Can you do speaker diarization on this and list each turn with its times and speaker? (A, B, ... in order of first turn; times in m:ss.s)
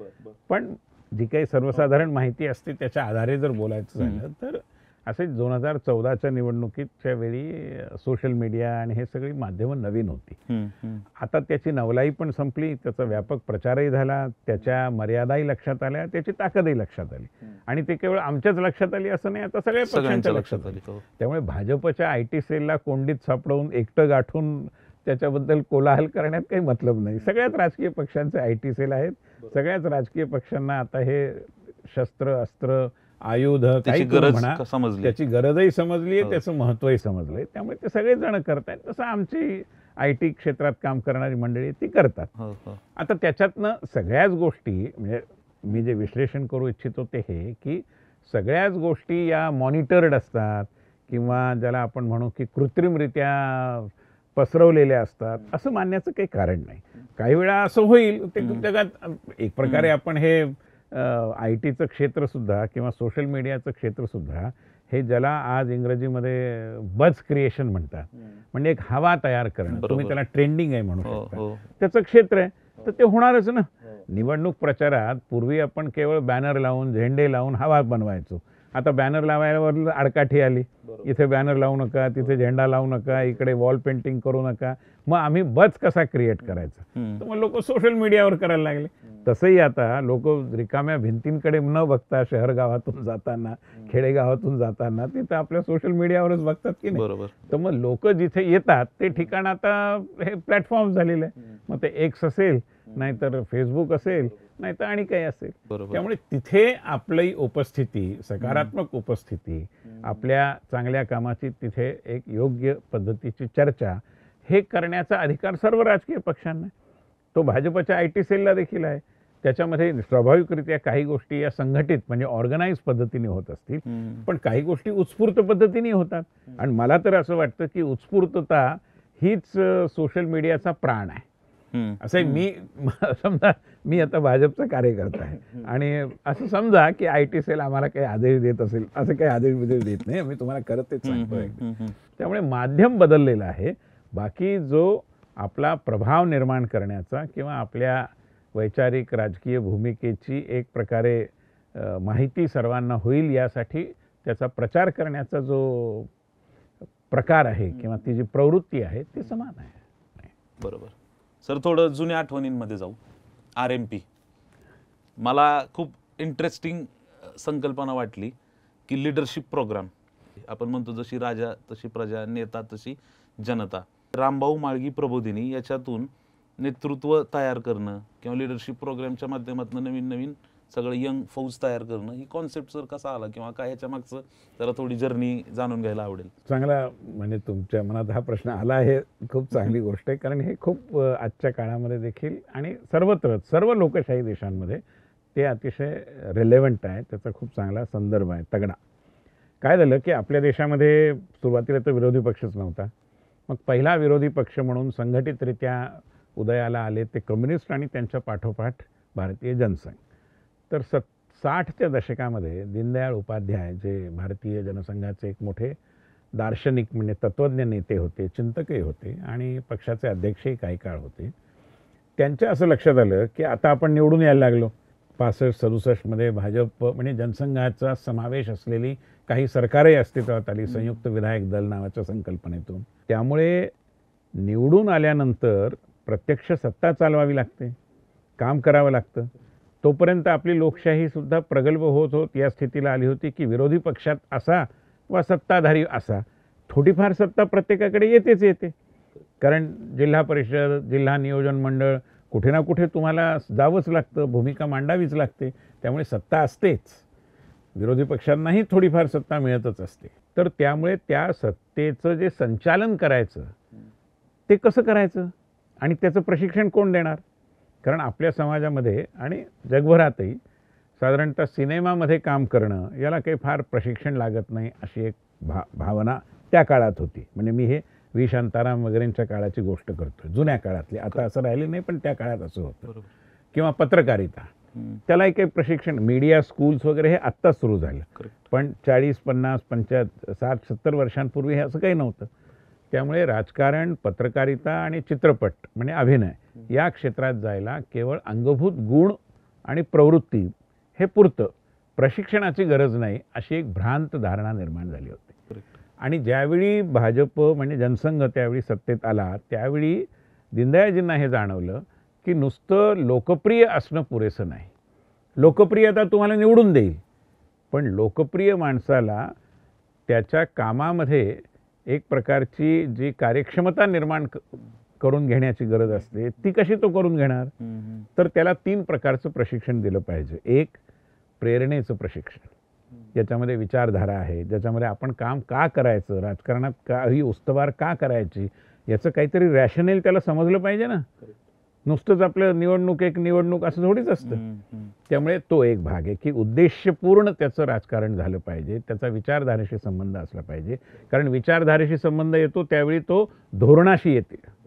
0:00.5-0:10.4 A
0:10.5-0:11.0 B
0:11.2-0:42.3 A
0:19.8-0:21.0 B
0:33.8-0:35.1 B
0:42.4-0:42.8 B
0:43.0-1:56.7 A
0:58.4-0:58.6 B
0:59.6-0:59.9 B
1:09.7-1:10.2 B
1:11.0-1:11.6 B
1:26.9-1:27.2 B
1:36.9-1:37.3 B
1:45.7-1:46.0 B
1:48.4-1:48.7 B
1:57.3-2:11.2 A
2:03.8-2:04.3 B
2:11.7-2:12.4 B
2:12.0-2:36.1 A
2:21.0-2:22.0 B
2:37.1-2:40.3 A
2:40.6-2:43.0 B
2:43.6-2:44.0 B
2:45.2-2:48.3 B
2:48.9-2:49.9 B
2:50.4-3:06.3 B
3:06.4-3:14.8 A
3:15.3-3:18.8 A
3:19.6-3:22.9 A
3:23.5-3:30.0 A
3:30.7-3:35.8 A
3:36.4-3:41.3 A
3:42.2-3:53.7 A
3:50.7-3:51.0 B
3:54.3-3:57.8 A
3:58.4-3:59.3 A
3:59.8-4:08.7 A
4:09.4-4:17.0 A
4:17.7-4:23.5 A
4:24.5-4:27.2 A
4:27.8-4:30.4 A
4:31.0-4:42.9 A
4:43.5-4:44.5 A
4:44.7-4:45.0 B
4:45.1-4:52.3 A
4:52.9-5:05.3 A
5:06.0-5:14.7 A
5:15.4-5:17.0 A
5:17.7-5:19.3 A
5:20.1-5:27.5 A
5:27.6-5:28.1 B
5:28.2-5:30.8 A
5:31.4-5:32.5 A
5:33.1-5:41.1 A
5:41.8-5:44.4 A
5:44.2-5:44.9 B
5:45.1-5:54.5 A